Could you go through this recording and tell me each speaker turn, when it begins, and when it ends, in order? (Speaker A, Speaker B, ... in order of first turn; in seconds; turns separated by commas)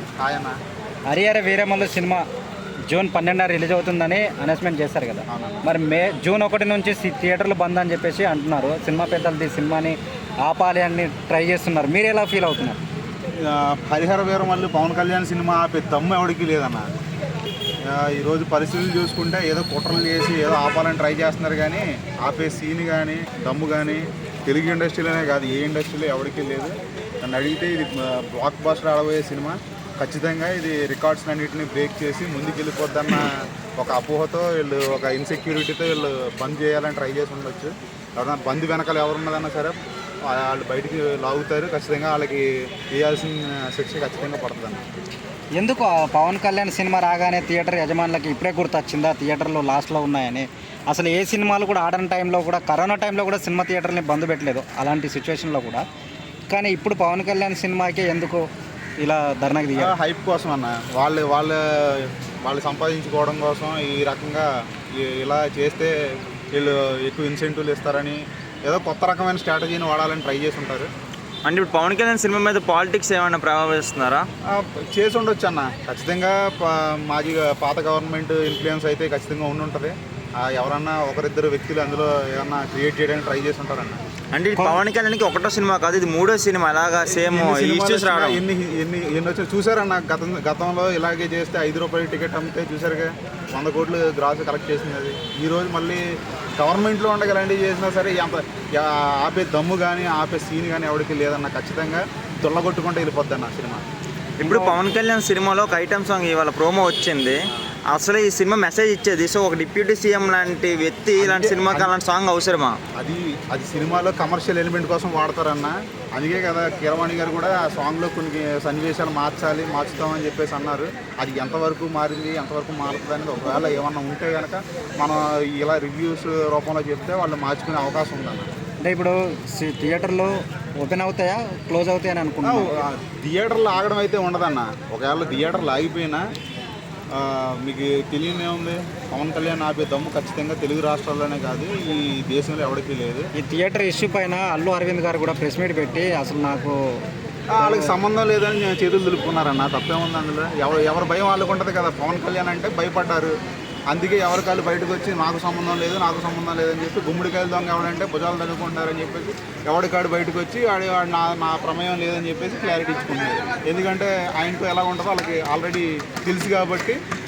Speaker A: 0.2-0.6, Speaker B: 1.1-2.2, Speaker B: 2.9-12.8, Speaker A: 5.3-5.7, Speaker A: 13.4-16.9, Speaker A: 17.9-44.8, Speaker B: 45.6-55.8, Speaker B: 56.5-58.5, Speaker B: 59.0-59.9, Speaker A: 59.8-65.9, Speaker A: 66.5-70.9, Speaker C: 71.5-74.3, Speaker A: 74.5-84.0, Speaker C: 84.3-88.4, Speaker B: 84.5-84.8, Speaker A: 87.0-96.0, Speaker A: 96.6-103.8, Speaker C: 104.4-112.8, Speaker B: 104.4-104.8, Speaker A: 111.2-111.9, Speaker A: 112.9-128.5, Speaker B: 128.8-132.8, Speaker A: 132.4-136.2, Speaker A: 137.1-143.3, Speaker B: 143.3-147.1, Speaker A: 147.5-153.3, Speaker B: 147.6-147.9, Speaker A: 153.9-167.0